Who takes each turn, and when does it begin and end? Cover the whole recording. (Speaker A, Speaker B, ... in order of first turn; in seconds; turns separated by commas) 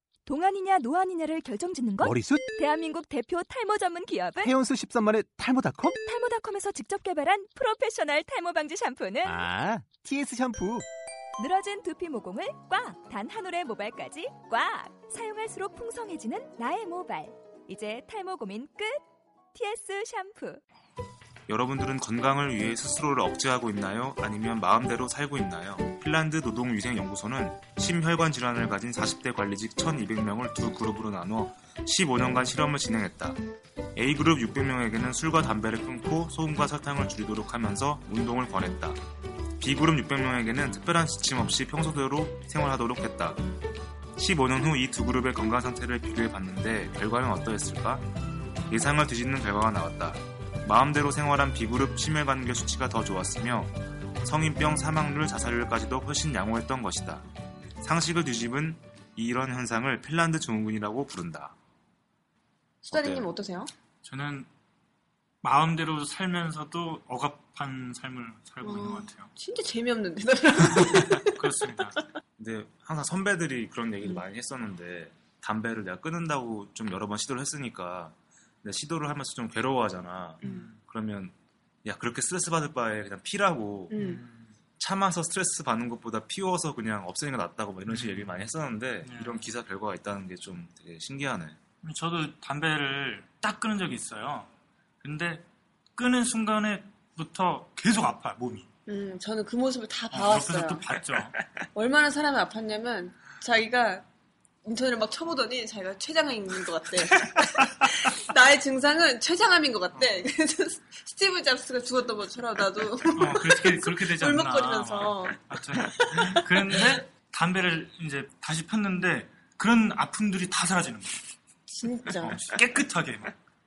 Speaker A: 0.2-4.5, Speaker B: 2.0-2.5, Speaker B: 4.4-6.0, Speaker A: 5.9-9.4, Speaker B: 9.2-10.8, Speaker A: 11.4-19.0, Speaker A: 19.5-20.6, Speaker C: 21.5-33.4, Speaker C: 33.9-39.0, Speaker C: 39.6-43.4, Speaker C: 44.2-48.1, Speaker C: 48.7-57.2, Speaker C: 57.8-61.5, Speaker D: 62.8-63.7, Speaker C: 62.9-63.3, Speaker E: 64.0-64.5, Speaker E: 65.4-69.3, Speaker D: 68.6-71.5, Speaker E: 70.8-72.0, Speaker C: 72.4-81.3, Speaker E: 80.4-80.8, Speaker D: 80.4-80.7, Speaker C: 81.8-84.0, Speaker D: 83.9-84.2, Speaker E: 83.9-84.5, Speaker C: 84.8-91.6, Speaker E: 87.9-88.5, Speaker E: 89.0-89.5, Speaker E: 91.8-94.5, Speaker E: 95.0-95.4, Speaker E: 96.0-98.7, Speaker D: 98.9-100.8, Speaker E: 100.1-101.4, Speaker D: 101.7-104.0, Speaker D: 104.6-116.9, Speaker E: 109.9-110.3, Speaker E: 113.2-121.2, Speaker D: 121.7-122.4, Speaker E: 122.2-123.3